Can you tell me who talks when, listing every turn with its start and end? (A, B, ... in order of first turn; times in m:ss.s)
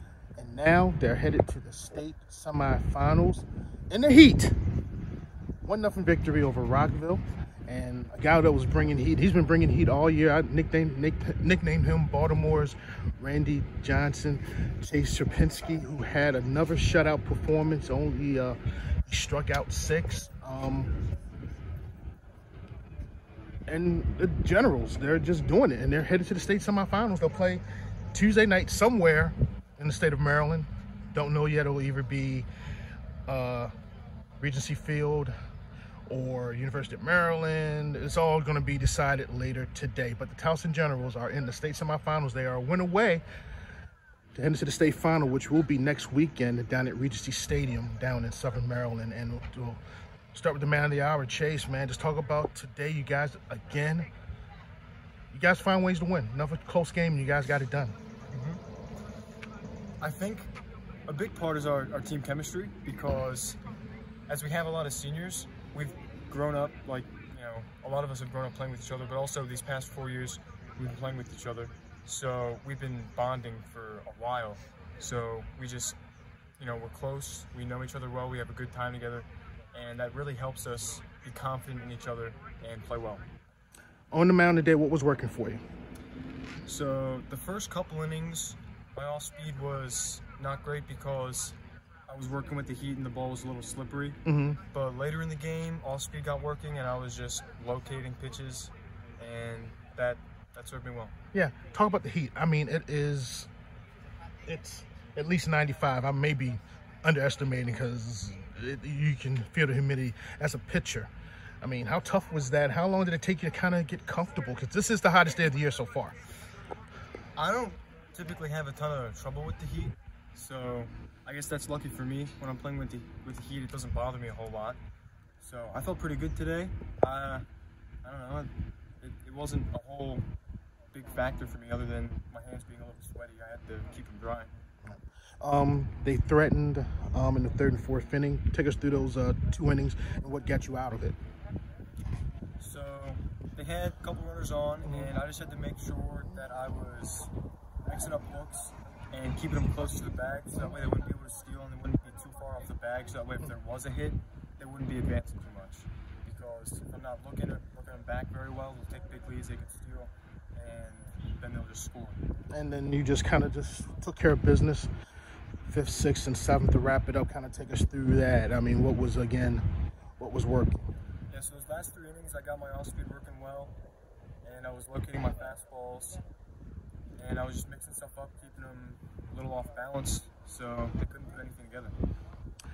0:00.4-0:04.6 A
0:05.6-0:20.9 A
0:23.7-0:32.5 A
0:33.3-0:33.7 A
0:34.4-0:35.3 A
0:36.1-0:43.2 A
0:44.3-0:49.8 A
0:50.3-0:54.1 A
0:55.3-0:58.0 A
0:58.3-0:58.6 B
1:00.0-1:00.5 B
1:01.1-1:03.6 B
1:04.3-1:16.0 B
1:16.6-1:23.2 B
1:24.1-1:25.6 A
1:26.7-1:31.6 B
1:32.1-1:34.2 B
1:34.2-1:34.6 A
1:34.7-1:41.1 B
1:41.3-1:43.5 A
1:44.5-1:51.1 A
1:51.6-1:56.2 A
1:57.4-2:04.8 B
2:05.4-2:07.4 B
2:08.0-2:10.2 B
2:10.9-2:14.5 B
2:14.9-2:21.2 A
2:22.6-2:27.3 B
2:24.8-2:25.1 A
2:27.9-2:42.2 B
2:30.6-2:30.8 A
2:42.5-2:44.9 A
2:45.7-2:49.6 A
2:50.2-2:50.9 A
2:51.3-2:53.7 B
2:54.4-2:56.2 B
2:57.2-3:02.0 B